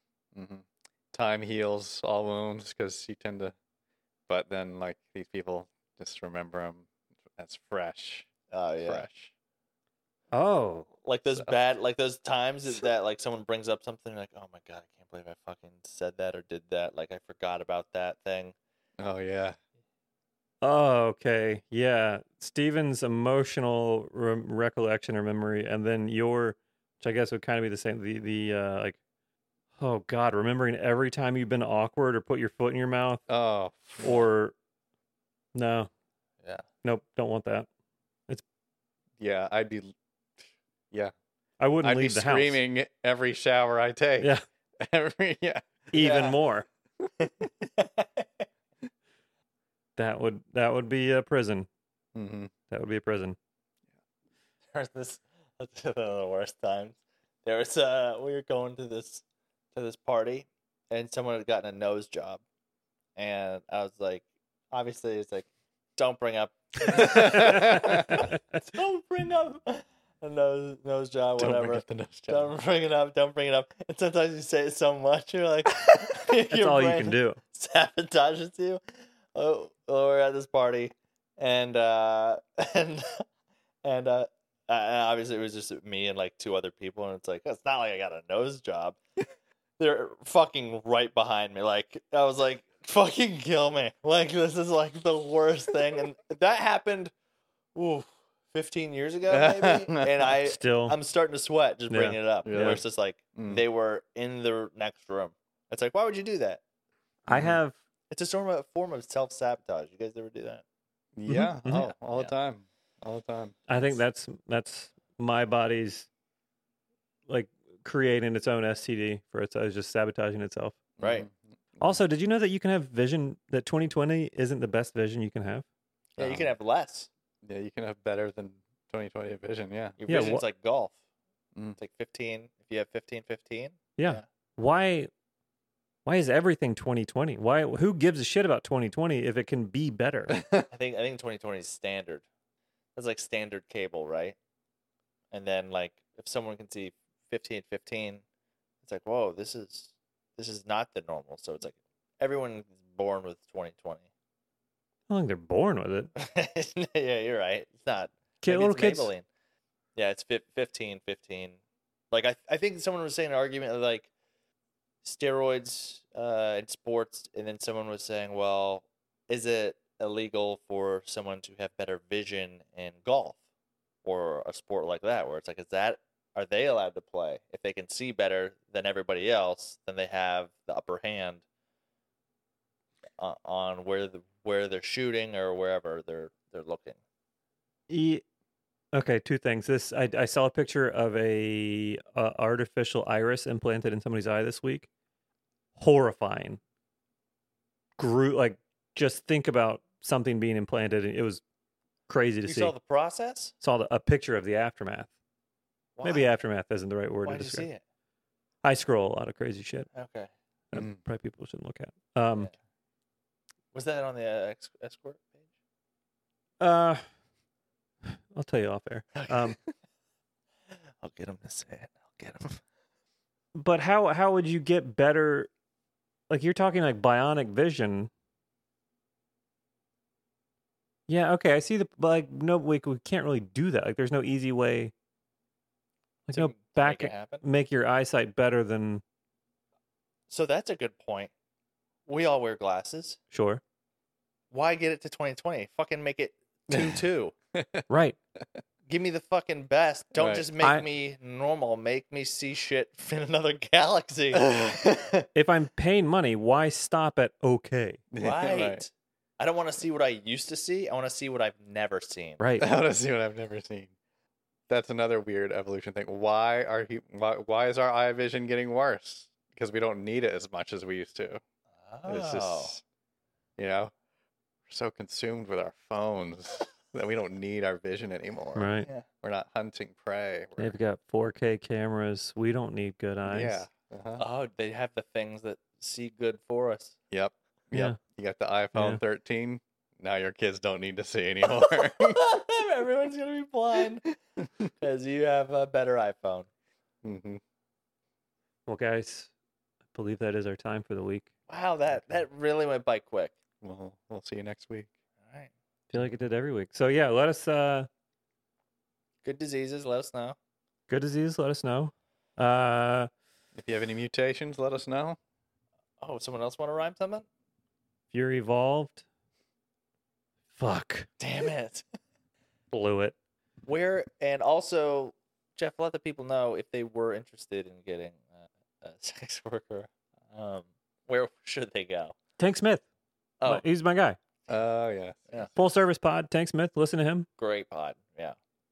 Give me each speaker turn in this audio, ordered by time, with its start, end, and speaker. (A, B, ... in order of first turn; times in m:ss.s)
0:00.3-0:03.5 A
0:04.3-0:08.3 A
0:08.5-0:09.1 B
0:08.8-0:09.3 A
0:10.3-0:10.9 C
0:11.0-0:18.5 B
0:19.0-0:19.6 A
0:20.6-0:29.0 C
0:29.8-0:33.2 C
0:33.3-0:34.2 A
0:34.0-0:34.5 C
0:35.5-0:35.9 C
0:36.8-0:37.7 C
0:39.2-0:39.9 A
0:41.6-0:42.6 C
0:41.8-0:46.3 A
0:45.9-0:46.6 C
0:45.9-0:46.4 B
0:47.2-0:48.5 B
0:50.0-0:51.7 C
0:52.1-0:52.5 A
0:52.7-0:53.4 C
0:54.7-0:59.2 B
0:59.7-1:02.4 B
1:03.2-1:18.8 B
1:06.8-1:08.2 A
1:07.1-1:08.3 C
1:11.4-1:12.5 A
1:16.5-1:17.4 C
1:19.3-1:23.2 B
1:23.8-1:29.0 B
1:29.8-1:37.1 B
1:37.7-1:46.6 B
1:39.3-1:40.3 A
1:40.4-1:41.0 C
1:41.9-1:42.8 C
1:42.4-1:42.8 A
1:43.3-1:43.6 A
1:47.3-1:47.7 C
1:47.3-1:47.6 A
1:48.1-1:50.6 B
1:51.2-1:53.6 A
1:51.3-1:51.9 C
1:53.7-1:56.1 C
1:57.3-2:00.8 C
2:01.0-2:02.0 A
2:01.0-2:01.3 B
2:01.8-2:05.6 C
2:06.2-2:07.1 B
2:06.2-2:06.5 A
2:07.4-2:10.0 A
2:10.0-2:11.0 B
2:10.1-2:10.4 C
2:11.8-2:14.2 B
2:14.0-2:15.1 C
2:16.0-2:20.4 C
2:20.4-2:20.6 A
2:20.7-2:22.2 B
2:23.0-2:24.4 B
2:25.3-2:28.2 B
2:28.8-2:34.1 B
2:35.1-2:36.1 C
2:36.2-2:39.2 B
2:38.4-2:39.1 C
2:40.0-2:41.6 B
2:42.1-2:44.1 B
2:45.0-2:53.4 B
2:54.0-3:01.4 B
3:03.2-3:07.0 B
3:07.9-3:08.2 C
3:08.9-3:14.9 C
3:15.8-3:16.6 C
3:18.0-3:21.4 C
3:22.1-3:22.7 C
3:22.4-3:23.5 B
3:23.6-3:25.1 C
3:26.0-3:26.2 B
3:26.0-3:27.7 C
3:27.2-3:27.8 B
3:28.6-3:29.9 C
3:29.9-3:30.3 B
3:30.7-3:32.5 C
3:30.7-3:31.0 A
3:33.7-3:35.4 B
3:36.6-3:37.0 C
3:38.0-3:39.6 C
3:39.1-3:39.6 B
3:41.0-3:42.6 B
3:43.5-3:45.5 C
3:46.3-3:48.1 C
3:51.1-3:54.9 C
3:56.3-3:57.4 B
3:56.3-3:59.0 C
4:00.3-4:01.3 B
4:02.1-4:03.2 B
4:03.3-4:03.6 C
4:04.5-4:07.3 B
4:07.5-4:07.9 A
4:07.9-4:08.2 C
4:08.9-4:14.5 B
4:10.2-4:10.5 A
4:14.3-4:15.3 A
4:15.3-4:18.0 C
4:18.1-4:18.8 A
4:18.2-4:22.4 B
4:22.4-4:22.7 C
4:22.6-4:23.9 A
4:24.7-4:31.4 A
4:31.8-4:32.8 B
4:32.0-4:32.8 A
4:33.6-4:33.9 A
4:34.7-4:40.8 A
4:38.5-4:38.9 C
4:40.6-4:43.6 C
4:43.3-4:44.2 A
4:44.2-4:47.0 B
4:47.1-4:52.2 A
4:48.7-4:49.0 C
4:51.5-4:54.0 B
4:54.8-4:56.5 B
4:57.0-4:57.4 A
4:58.7-4:59.3 C
4:59.9-5:01.3 C
5:01.5-5:03.3 B
5:03.6-5:04.9 A
5:05.9-5:07.9 C
5:09.2-5:10.4 B
5:10.9-5:13.1 C
5:13.5-5:15.2 A
5:16.0-5:17.2 B
5:18.1-5:19.0 C
5:20.6-5:21.1 C
5:21.2-5:21.8 B
5:22.7-5:23.1 C
5:23.6-5:32.1 B
5:32.4-5:32.8 C
5:33.4-5:34.2 C
5:34.5-5:35.5 A
5:35.6-5:37.3 C
5:37.4-5:38.4 B